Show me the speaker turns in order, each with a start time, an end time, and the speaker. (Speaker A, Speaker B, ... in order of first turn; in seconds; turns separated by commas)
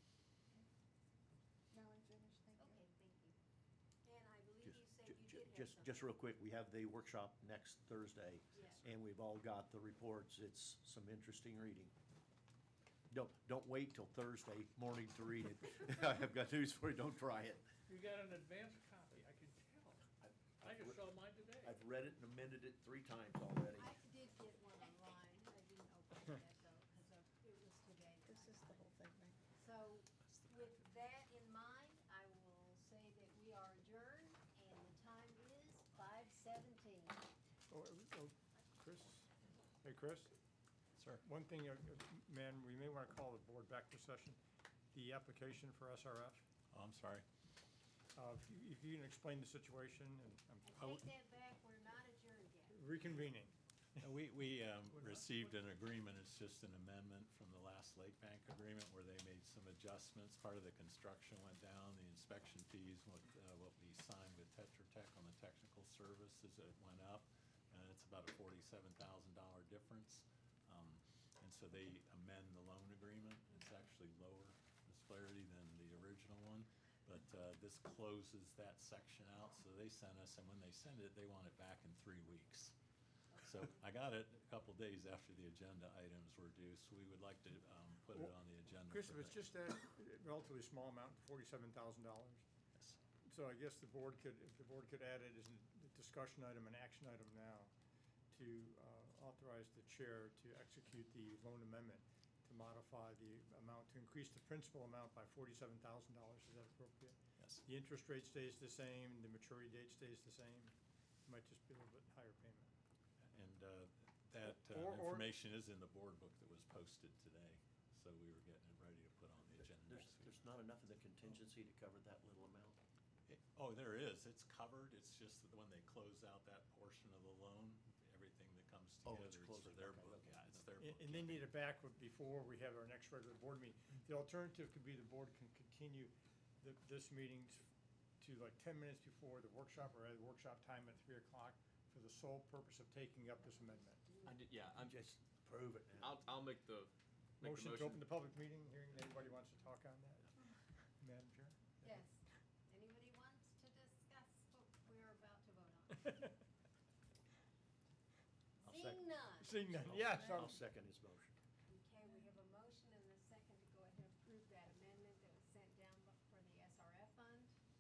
Speaker A: 1.7-2.9, Speaker B: 2.6-3.4, Speaker B: 4.0-6.1, Speaker C: 4.6-11.9, Speaker B: 8.5-8.8, Speaker C: 13.1-17.6, Speaker D: 17.9-20.1, Speaker C: 20.2-21.1, Speaker D: 20.6-21.8, Speaker C: 21.6-23.9, Speaker B: 23.7-28.8, Speaker A: 28.2-29.4, Speaker B: 29.5-37.2, Speaker E: 30.3-30.8, Speaker F: 37.7-39.3, Speaker F: 39.8-40.3, Speaker E: 41.0-41.2, Speaker F: 41.2-44.4, Speaker F: 44.9-46.4, Speaker E: 46.7-47.2, Speaker F: 48.1-51.0, Speaker B: 50.6-53.2, Speaker F: 52.7-54.0, Speaker E: 54.0-82.7, Speaker E: 83.3-89.4, Speaker F: 88.9-92.4, Speaker F: 93.3-97.7, Speaker F: 98.3-110.7, Speaker E: 107.4-107.6, Speaker F: 111.2-112.7, Speaker E: 113.2-120.5, Speaker F: 114.5-115.3, Speaker C: 119.8-122.8, Speaker E: 123.3-131.5, Speaker C: 129.0-130.6, Speaker F: 130.8-137.7, Speaker F: 138.2-144.1, Speaker G: 144.3-144.9, Speaker C: 144.7-146.2, Speaker G: 146.0-148.0, Speaker F: 147.4-150.3, Speaker F: 151.0-151.9, Speaker B: 151.8-156.3, Speaker B: 158.6-159.6, Speaker C: 158.6-159.0, Speaker F: 159.4-160.6, Speaker C: 159.7-161.3, Speaker B: 161.7-167.5